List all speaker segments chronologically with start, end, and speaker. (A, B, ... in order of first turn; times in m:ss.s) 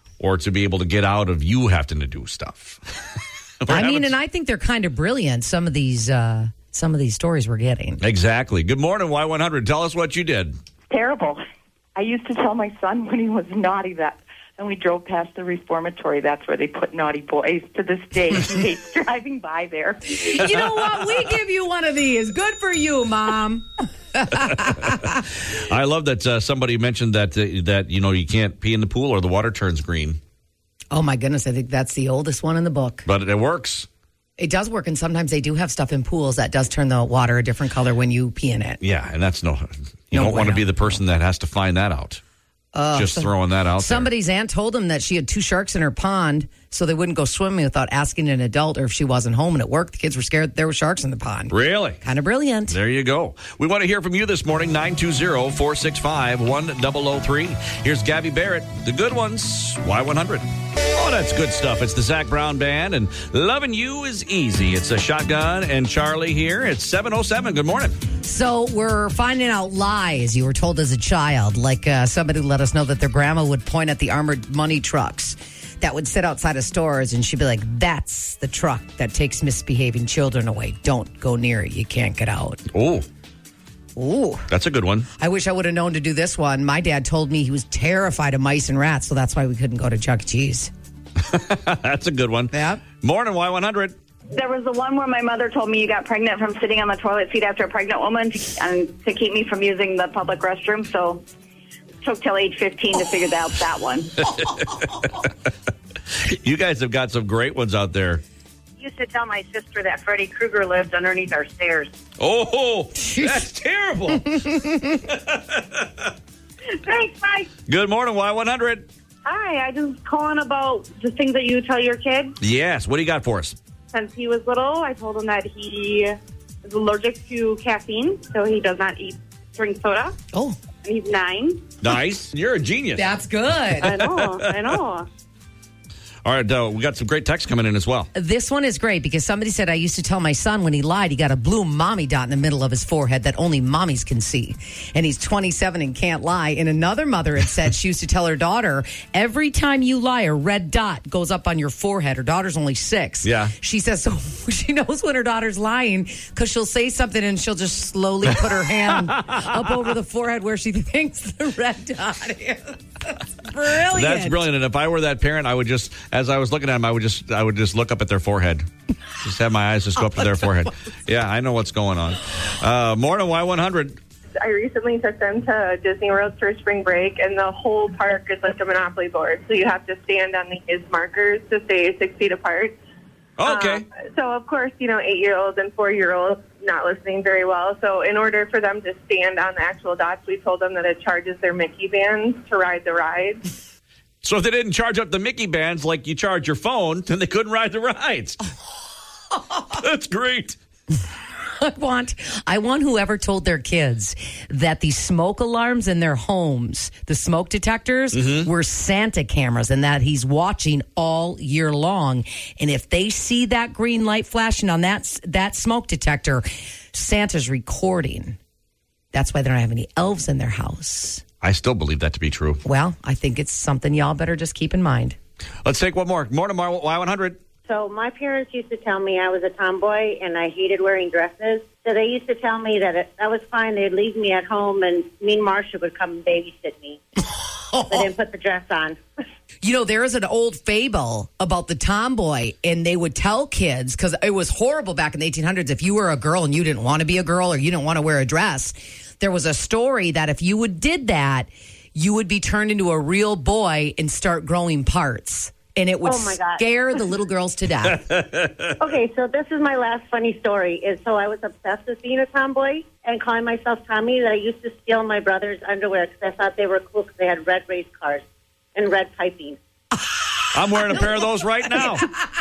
0:00.2-0:02.8 A
0:03.6-0:04.1 A
0:03.7-0:08.0 B
0:08.0-0:10.6 A
0:10.9-0:11.4 C
0:12.0-0:20.0 C
0:20.0-0:25.1 B
0:24.6-0:30.2 A
0:30.9-0:33.0 B
0:33.1-0:33.9 A
0:34.4-0:38.8 B
0:38.8-0:42.2 A
0:40.1-0:41.0 B
0:42.7-0:52.8 B
0:42.9-0:44.1 A
0:51.5-0:52.0 A
0:52.7-1:08.0 A
1:08.2-1:22.6 B
1:22.7-1:23.1 A
1:24.0-1:24.5 B
1:24.5-1:25.1 A
1:25.2-1:30.7 B
1:31.3-1:34.0 A
1:32.5-1:32.8 B
1:34.3-1:41.2 D
1:42.0-1:44.2 D
1:44.4-1:45.3 A
1:46.2-1:48.2 A
1:48.8-1:51.9 E
1:52.2-1:54.3 A
1:53.0-1:53.5 B
1:54.3-1:54.8 B
1:55.1-1:55.9 A
1:56.9-1:57.4 E
1:57.7-1:58.9 A
1:59.2-2:02.4 F
2:02.4-2:03.6 A
2:03.9-2:06.2 F
2:06.7-2:10.1 F
2:10.8-2:11.6 F
2:11.8-2:13.1 A
2:13.0-2:14.0 B
2:13.8-2:14.7 A
2:13.8-2:15.1 F
2:16.2-2:18.1 A
2:18.1-2:44.5 B
2:33.2-2:33.5 A
2:43.9-2:48.7 A
2:49.2-2:54.0 A
2:54.4-3:02.8 G
3:03.4-3:03.8 A
3:03.4-3:13.4 G
3:14.2-3:18.4 A
3:19.7-3:20.6 A
3:21.6-3:38.4 B
3:28.1-3:28.5 A
3:39.1-3:41.2 B
3:41.4-3:42.6 A
3:42.6-3:45.2 B
3:45.6-3:47.4 A
3:47.7-3:57.0 E
3:57.3-3:58.0 B
3:57.9-3:59.0 E
3:59.6-4:18.1 B
4:16.0-4:16.6 E
4:18.0-4:18.7 A
4:18.8-4:28.2 E
4:28.8-4:29.6 E
4:30.5-4:32.1 A
4:30.8-4:31.2 B
4:31.8-4:32.3 B